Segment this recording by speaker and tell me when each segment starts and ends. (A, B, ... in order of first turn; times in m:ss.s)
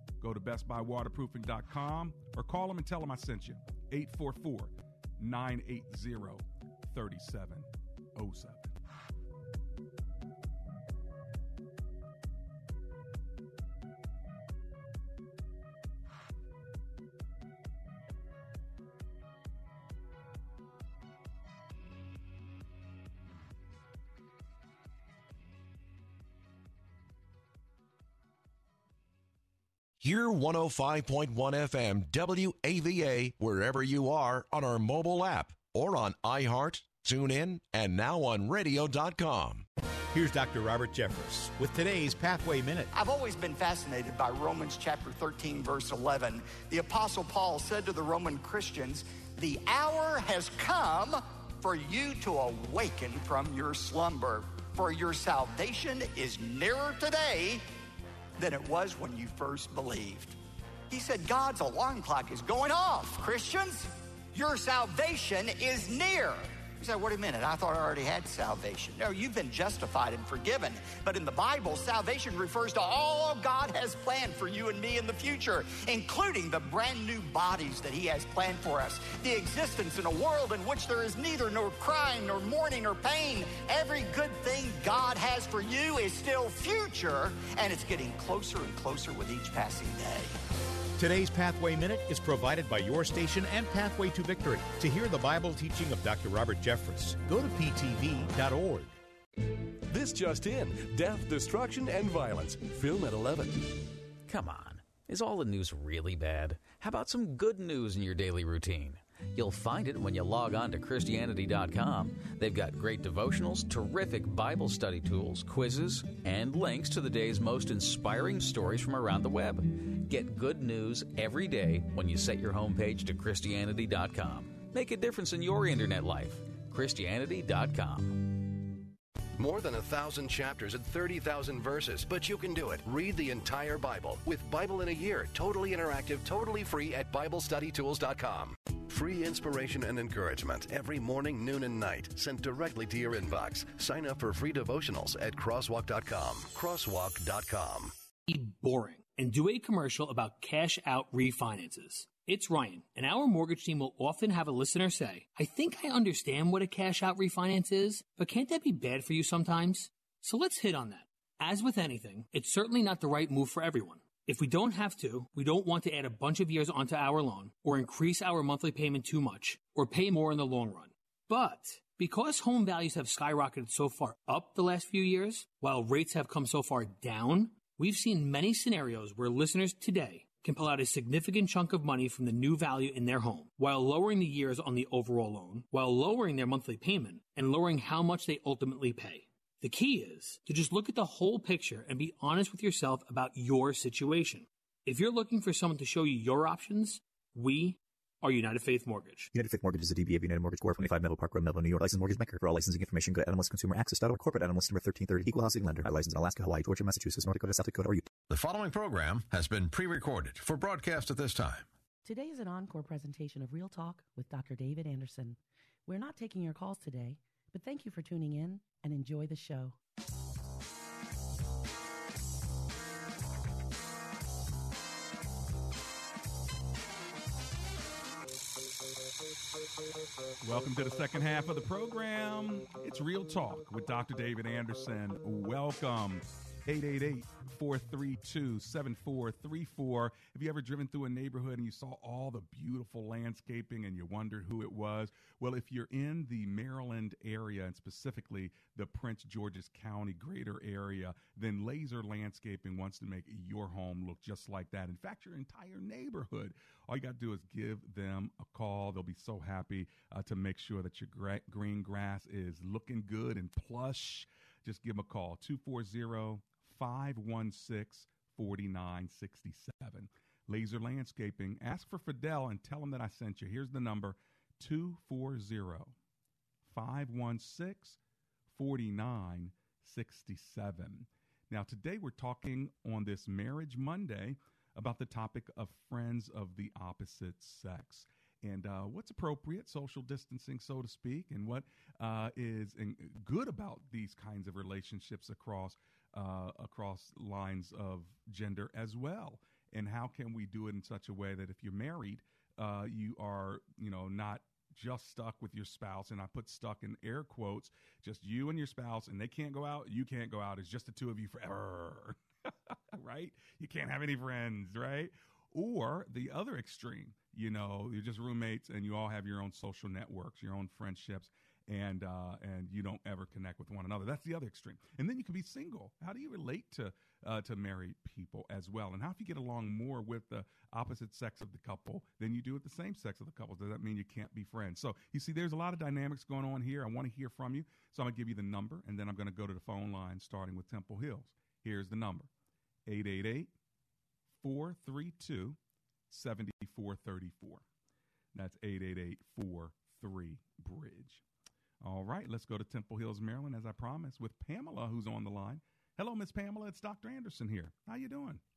0:00.2-0:08.8 A
0:30.0-0:39.6 B
0:40.1-0:42.8 C
0:42.9-0:57.6 D
0:58.4-1:00.4 D
1:00.9-1:30.3 D
1:31.0-1:33.8 C
1:39.9-1:43.7 E
1:44.3-2:08.3 F
2:09.4-2:27.9 G
2:28.3-3:19.3 H
3:19.3-3:28.0 I
3:28.3-3:31.7 J
3:32.0-3:39.8 K
3:50.4-4:35.9 A
4:36.6-4:38.0 A
4:38.5-5:12.2 A
5:12.9-5:42.3 A
5:42.9-5:43.5 A
5:44.4-5:45.6 A
5:46.1-5:47.6 A
5:48.3-5:51.2 A
5:51.8-5:58.4 A